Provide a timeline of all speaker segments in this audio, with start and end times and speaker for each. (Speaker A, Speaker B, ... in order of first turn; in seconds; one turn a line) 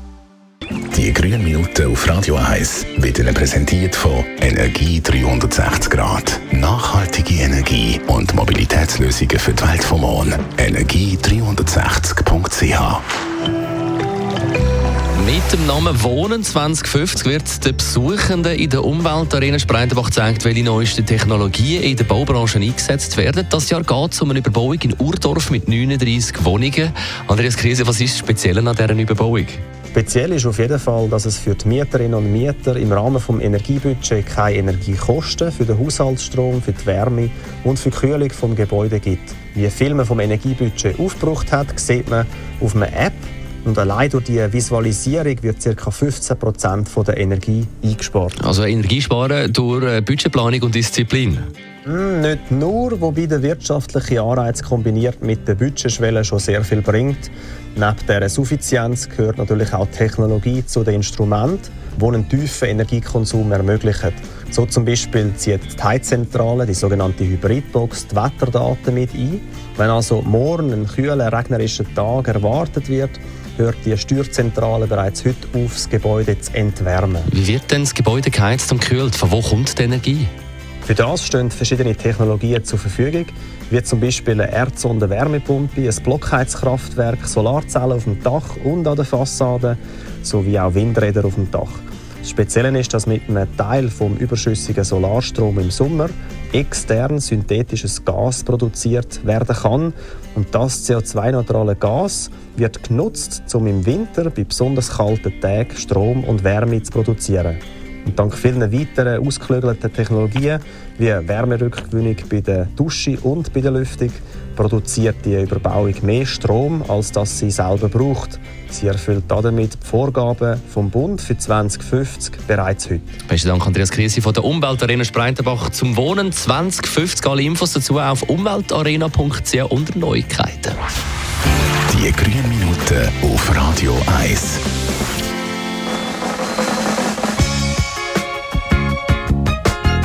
Speaker A: 0.9-13.0
Speaker B: 15.1-29.6
Speaker C: 29.9-48.4
Speaker B: 48.4-51.5
Speaker C: 51.9-77.3
Speaker B: 77.3-80.3
Speaker C: 80.8-123.2
Speaker B: 123.3-130.8
Speaker A: 131.9-134.6